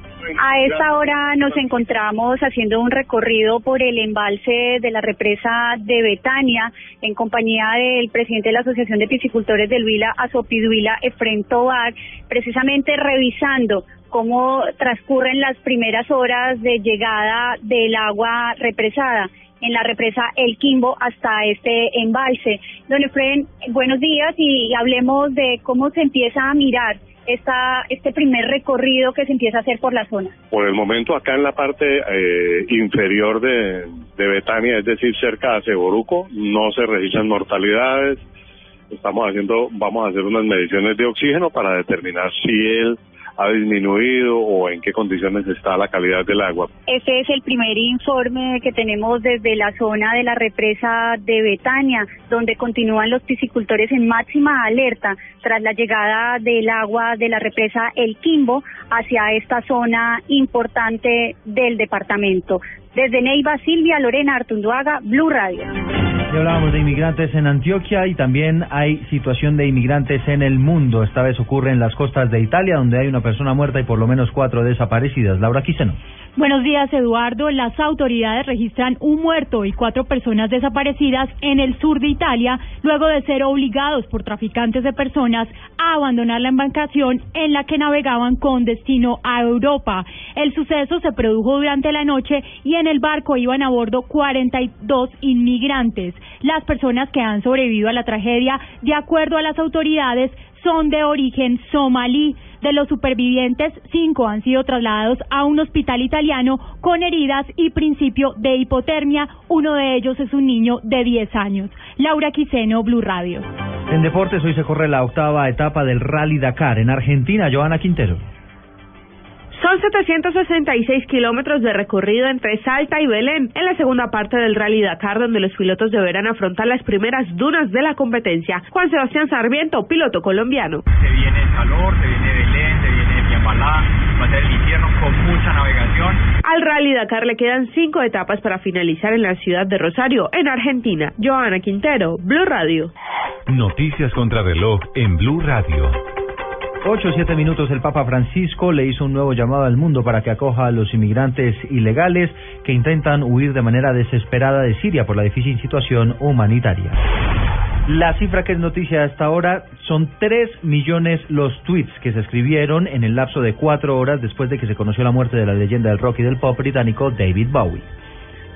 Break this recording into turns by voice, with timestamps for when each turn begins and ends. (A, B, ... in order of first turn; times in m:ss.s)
0:00.4-0:30.3 A
0:30.5-0:38.2 B
0:38.9-0:46.7 B
0:46.9-1:05.7 A
1:06.3-1:16.0 C
1:16.4-1:53.5 D
1:53.9-1:58.2 C
1:59.5-2:10.8 E
2:11.0-2:16.2 F
2:16.4-2:22.9 E
2:23.5-2:25.9 G
2:26.8-2:37.0 C
2:37.9-2:47.8 C